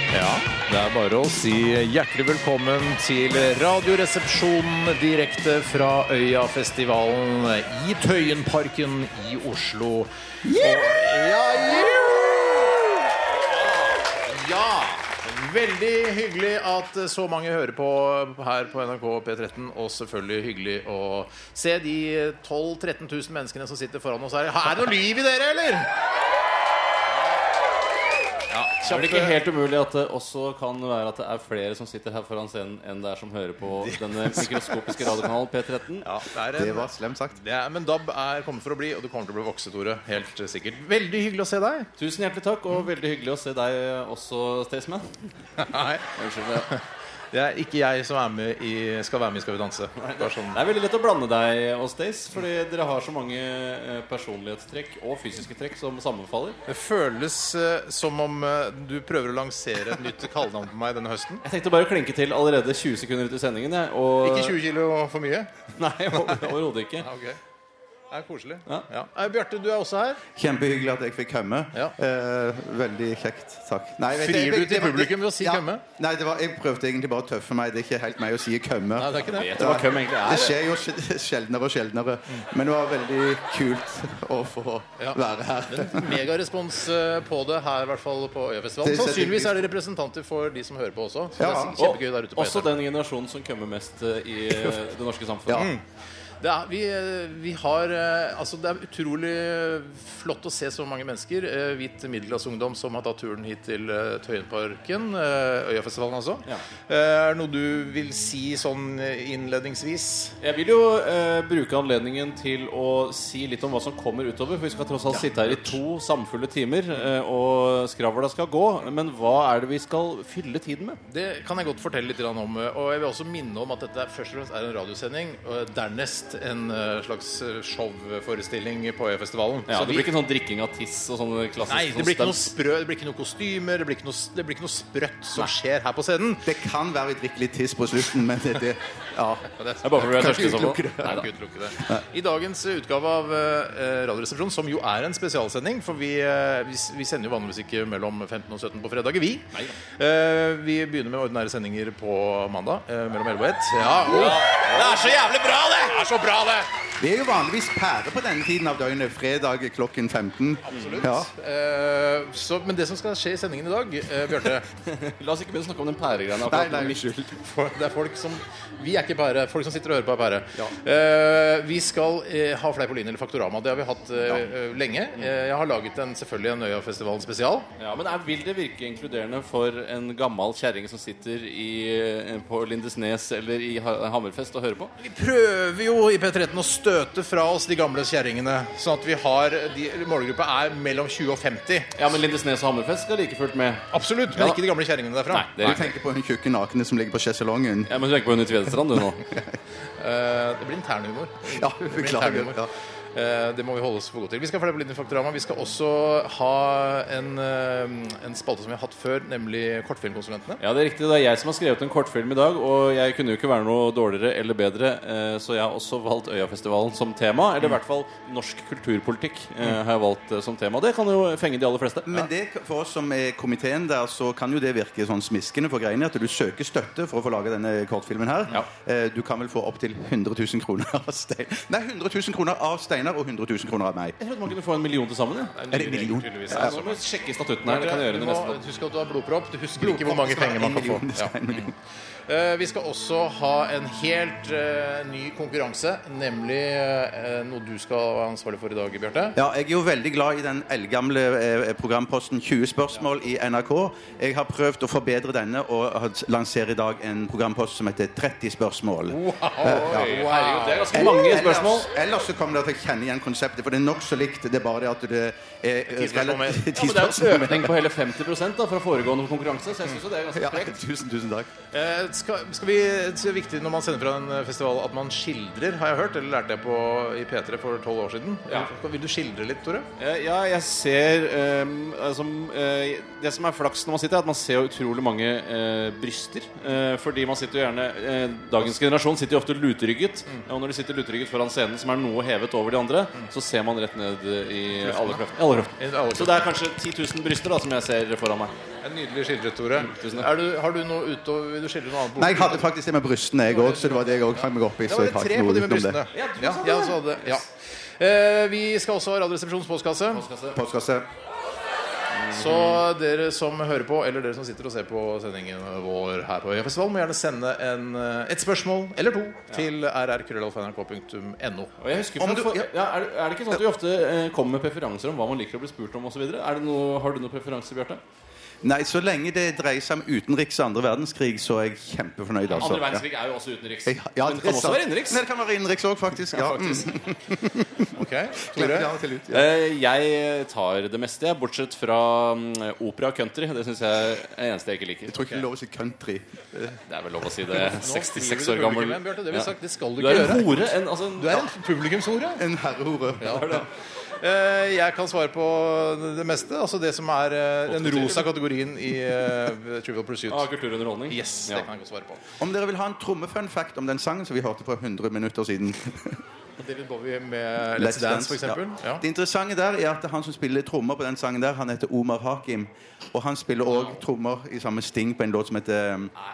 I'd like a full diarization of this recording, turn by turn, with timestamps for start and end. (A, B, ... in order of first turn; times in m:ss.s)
0:00.1-0:12.6 A
0:13.4-0:25.9 A
0:28.5-0:29.4 A
0:28.8-0:36.0 B
0:33.8-0:35.1 A
0:36.0-0:41.9 A
0:36.5-0:37.4 C
0:42.0-0:45.3 B
0:45.6-0:50.6 A
0:46.2-0:46.7 B
0:50.0-0:56.6 B
0:56.7-1:01.4 A
1:01.4-1:04.6 B
1:04.2-1:05.5 A
1:05.8-1:07.0 B
1:06.2-1:06.5 A
1:07.0-1:07.4 A
1:08.1-1:10.2 A
1:10.4-1:26.2 C
1:14.1-1:15.8 A
1:19.0-1:19.6 A
1:19.2-1:20.6 B
1:25.0-1:32.7 A
1:28.8-1:29.7 C
1:31.4-1:31.8 C
1:31.8-1:35.7 B
1:35.5-1:35.8 A
1:36.4-1:50.3 A
1:50.4-2:01.0 B
1:55.2-1:55.7 A
2:01.1-2:10.1 A
2:09.7-2:12.5 B
2:11.7-2:16.5 A
2:16.4-2:21.2 C
2:19.5-2:20.1 A
2:19.8-2:21.2 B
2:21.0-2:36.7 A
2:34.0-2:35.8 B
2:37.0-2:41.3 C
2:40.7-2:44.6 A
2:40.7-2:41.0 B
2:44.8-2:47.0 B
2:46.4-2:47.4 C
2:47.4-2:57.7 A
2:57.8-3:04.9 B
3:05.0-3:11.9 A
3:12.0-3:14.6 B
3:13.9-3:15.6 A
3:15.3-3:15.9 B
3:15.6-3:18.0 C
3:17.9-3:19.2 B
3:20.0-3:22.6 A
3:21.5-3:22.7 C
3:23.1-3:30.6 A
3:30.6-3:42.3 B
3:42.0-3:54.2 C
3:54.2-3:55.6 B
3:55.6-3:57.0 A
3:55.7-3:56.8 C
3:56.5-3:58.6 B
3:57.6-4:01.7 A
3:59.8-4:01.7 C
4:02.3-4:09.4 A
4:09.3-4:20.1 C
4:19.1-4:21.2 A
4:19.8-4:21.9 B
4:20.9-4:27.7 C
4:25.9-4:26.7 A
4:26.7-4:30.8 B
4:30.3-4:31.5 C
4:31.7-4:39.9 A
4:40.0-4:58.5 B
4:54.8-4:55.2 A
4:55.8-4:56.4 A
4:58.8-5:02.7 A
4:59.8-5:00.3 B
5:02.1-5:06.0 C
5:03.5-5:07.5 A
5:06.1-5:07.4 B
5:08.0-5:10.2 A
5:10.1-5:10.6 B
5:10.5-5:11.1 C
5:12.1-5:12.8 B
5:12.3-5:21.7 A
5:21.8-5:28.0 B
5:22.2-5:22.7 C
5:28.6-5:33.1 C
5:32.5-5:35.2 B
5:33.8-5:39.5 C
5:36.3-5:36.9 A
5:37.9-5:38.9 A
5:39.3-5:45.2 B
5:45.1-5:46.2 C
5:46.5-5:46.8 A
5:46.9-5:51.5 B
5:47.5-5:52.4 A
5:52.4-5:53.6 C
5:53.2-5:53.6 A
5:53.2-5:53.7 B
5:54.2-6:00.4 A
5:57.7-5:58.3 B
6:00.3-6:01.6 B
6:01.1-6:02.2 A
6:02.4-6:06.2 C
6:06.6-6:09.0 A
6:07.7-6:16.1 C